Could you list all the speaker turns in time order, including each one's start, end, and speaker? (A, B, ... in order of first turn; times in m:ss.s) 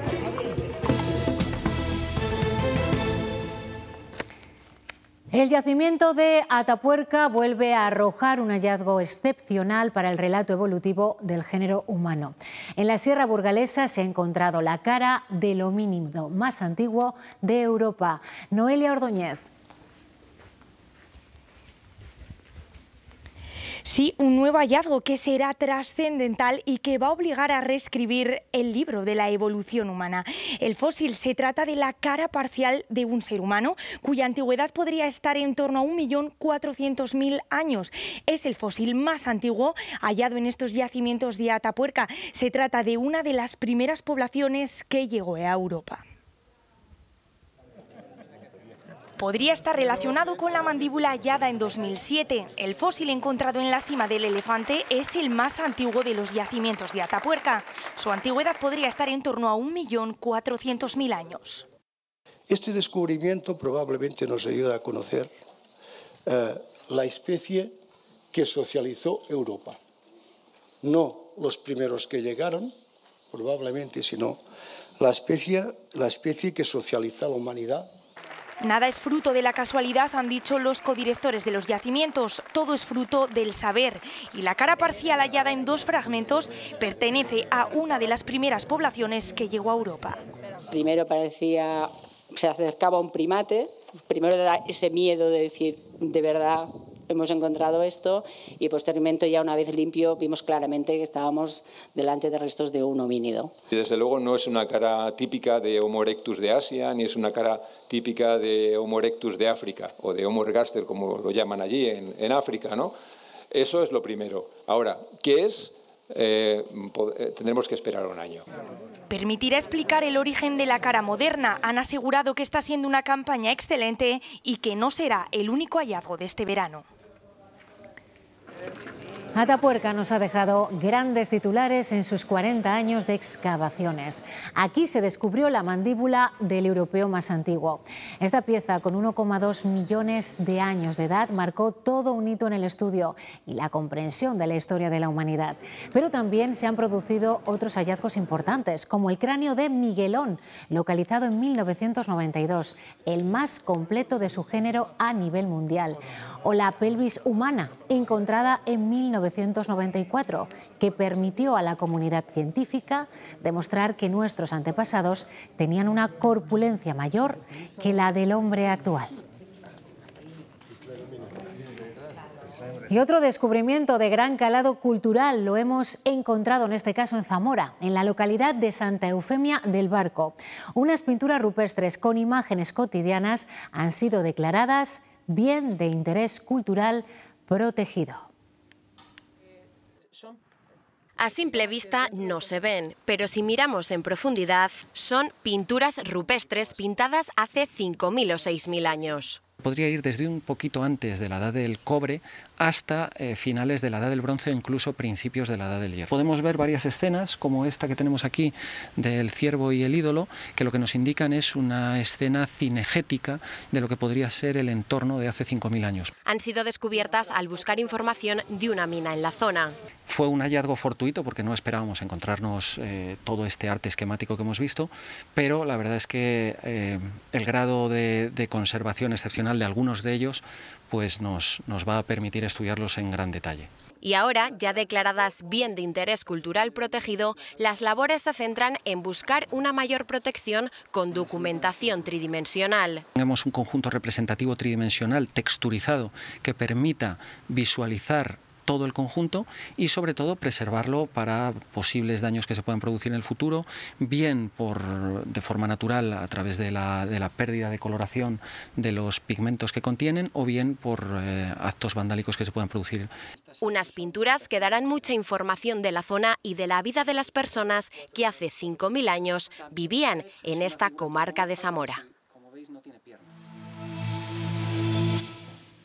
0:05.3-0:19.5 A
0:23.8-0:46.0 B
0:49.2-1:01.6 B
1:02.5-1:05.3 C
1:06.2-1:07.7 C
1:08.3-1:09.8 C
1:10.8-1:12.7 C
1:13.3-1:14.4 C
1:15.0-1:17.9 C
1:18.6-1:30.2 B
1:30.7-1:43.5 D
1:43.7-1:52.9 E
1:53.5-1:58.4 E
1:59.1-2:06.8 B
2:09.3-2:49.1 A
2:52.9-3:08.3 A
3:11.2-3:19.4 F
3:19.6-3:36.1 G
3:36.2-3:39.7 F
3:40.1-3:53.7 G
3:54.0-4:03.0 F
4:03.1-4:23.1 G
4:23.6-4:32.0 F